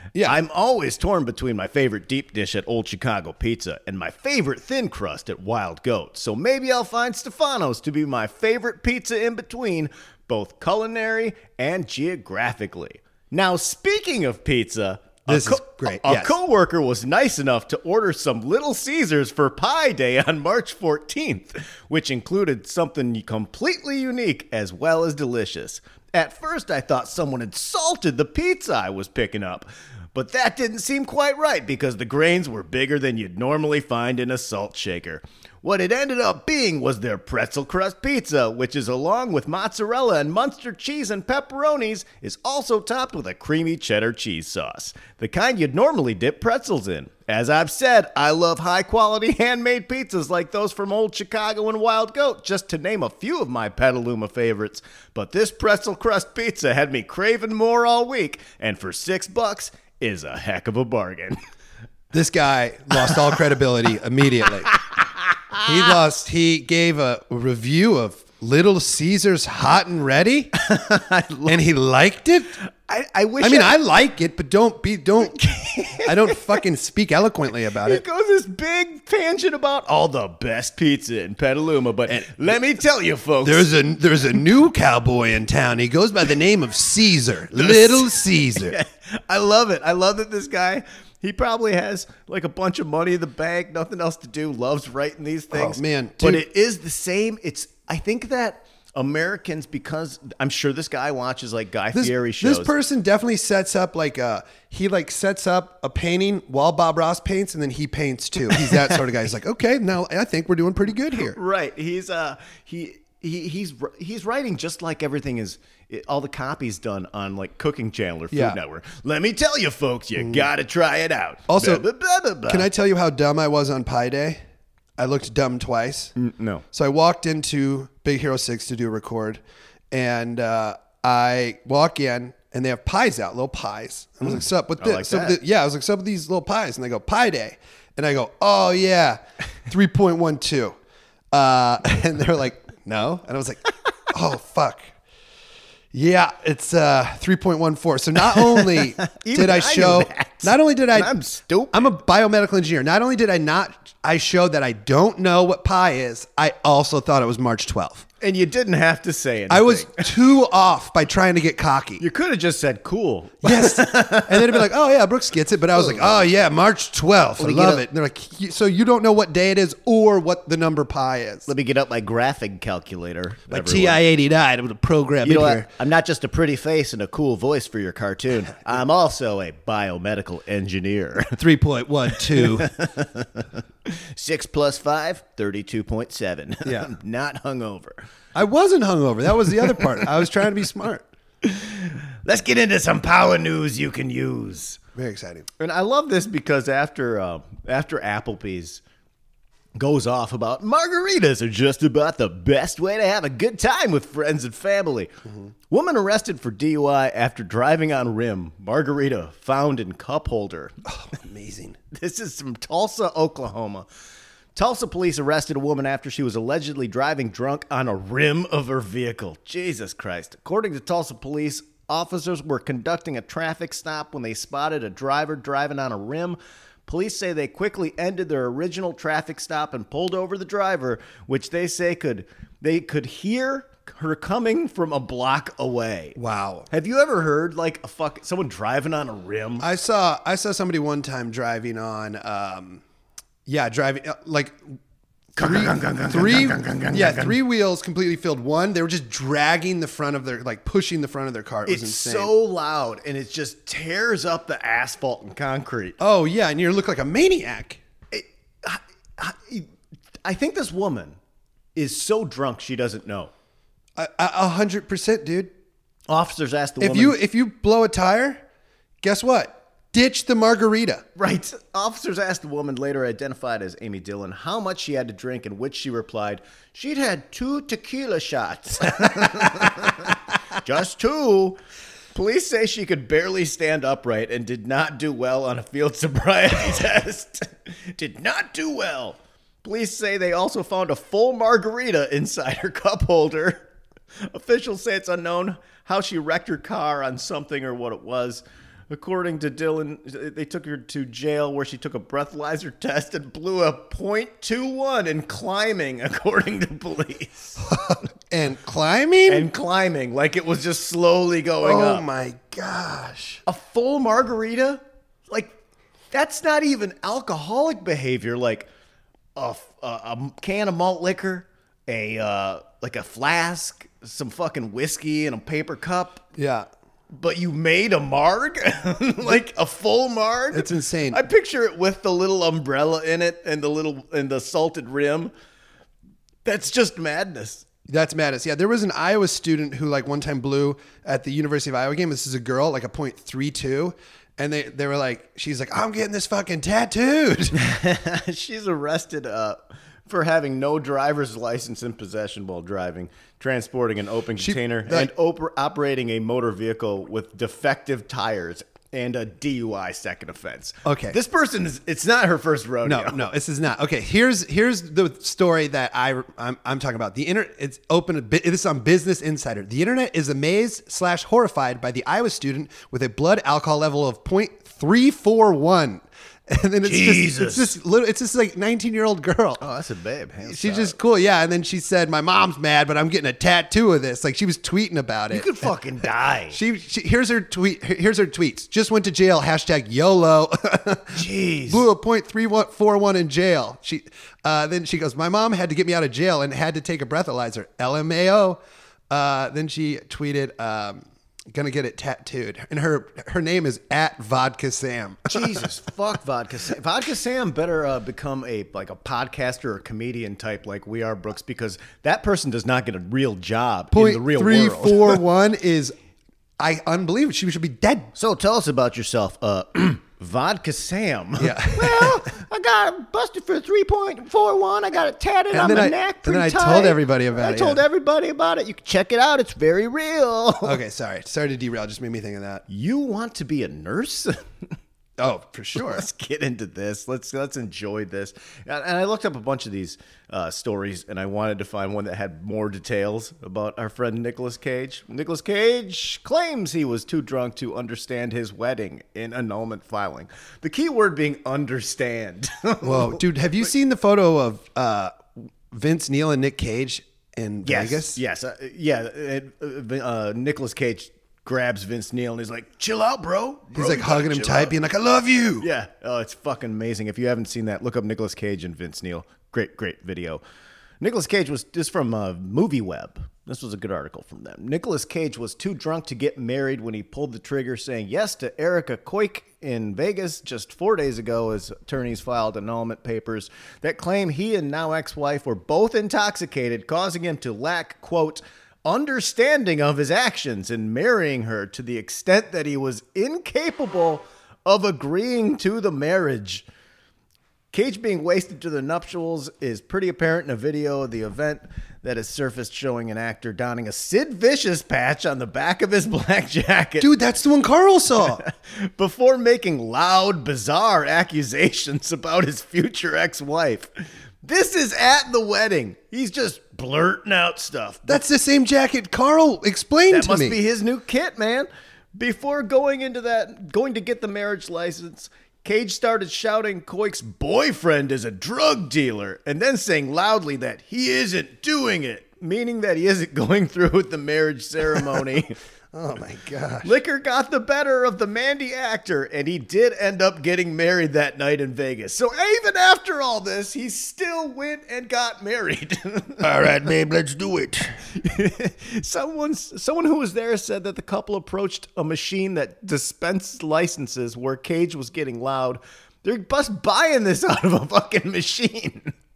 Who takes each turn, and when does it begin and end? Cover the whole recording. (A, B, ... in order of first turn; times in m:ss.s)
0:00.2-1:01.4 A
0:15.3-0:16.4 B
1:02.1-1:04.7 B
1:04.9-1:05.6 A
1:05.6-1:10.5 B
1:10.6-1:11.6 A
1:11.5-1:12.6 B
1:12.9-1:13.8 A
1:13.4-1:15.4 B
1:15.2-1:16.6 A
1:16.0-1:18.0 B
1:17.8-1:23.7 A
1:22.1-1:22.4 B
1:23.4-1:28.8 B
1:27.5-1:42.7 A
1:35.5-1:36.4 B
1:41.9-1:51.4 B
1:48.5-1:49.0 A
1:51.2-2:02.7 A
1:58.3-1:58.6 B
2:00.2-2:00.5 B
2:01.5-2:01.8 B
2:02.5-2:04.4 B
2:05.0-2:06.1 B
2:06.2-2:06.6 A
2:06.7-2:20.8 B
2:14.8-2:15.4 A
2:21.3-2:24.9 B
2:25.9-2:31.1 B
2:28.3-2:31.9 A
2:31.7-2:38.1 B
2:38.2-2:40.1 A
2:39.5-2:42.0 B
2:42.0-2:44.7 A
2:43.4-2:51.5 B
2:45.8-2:46.2 A
2:47.4-2:47.8 A
2:51.5-2:54.0 A
2:53.5-2:55.7 B
2:55.2-3:01.4 A
3:01.4-3:02.7 B
3:02.2-3:08.0 A
3:06.6-3:06.9 B
3:08.4-3:11.1 B
3:11.4-3:14.8 A
3:15.0-3:15.5 B
3:15.6-3:18.8 A
3:19.8-3:25.1 A
3:25.7-3:30.8 A
3:30.9-3:31.8 B
3:31.9-3:33.9 A
3:34.6-3:56.2 A
3:56.2-3:56.7 B
3:56.7-3:59.7 A
3:59.6-4:02.8 B
4:03.5-4:04.8 B
4:05.4-4:12.3 B
4:05.4-4:07.4 A
4:11.7-4:16.0 A
4:16.0-4:17.8 B
4:18.1-4:19.7 A
4:20.2-4:21.2 A
4:21.8-4:23.3 A
4:24.0-4:25.5 B
4:26.1-4:27.2 A
4:26.8-4:28.4 B
4:29.0-4:31.0 B
4:31.2-4:41.6 A
4:42.1-4:53.7 A
4:54.3-5:07.6 A
5:07.6-5:09.5 B
5:09.3-5:12.1 A
5:11.6-5:13.4 B
5:13.5-5:15.6 A
5:16.1-5:18.7 A
5:19.4-5:26.2 A
5:26.4-5:26.7 B
5:27.1-5:35.3 A
5:30.5-5:31.2 B
5:36.4-5:37.7 A
5:37.9-5:47.6 B
5:47.5-6:03.3 A
5:54.4-5:55.1 B
6:00.8-6:01.2 B
6:02.8-6:19.6 B
6:16.8-6:17.7 A
6:19.6-6:21.0 A
6:20.4-6:25.7 B
6:25.3-6:26.6 A
6:26.5-6:45.6 B
6:31.1-6:31.8 A
6:45.3-6:55.2 A
6:53.9-6:56.0 B
6:56.6-6:58.1 B
6:58.2-7:10.8 A
7:01.4-7:02.2 B
7:05.5-7:07.8 B
7:10.6-7:12.6 B
7:12.7-7:14.4 A
7:15.2-7:16.0 B
7:15.8-7:33.3 A
7:32.8-7:38.2 B
7:37.6-7:44.8 A
7:43.7-7:45.7 B
7:45.6-7:50.4 A
7:51.0-8:16.6 A
8:17.7-8:27.1 A
8:27.0-8:28.4 B
8:28.2-8:33.9 A
8:34.4-8:38.2 A
8:38.1-8:40.6 B
8:40.1-8:55.6 A
8:55.9-8:56.9 B
8:56.8-9:06.7 A
9:06.6-9:07.4 B
9:08.1-9:19.1 A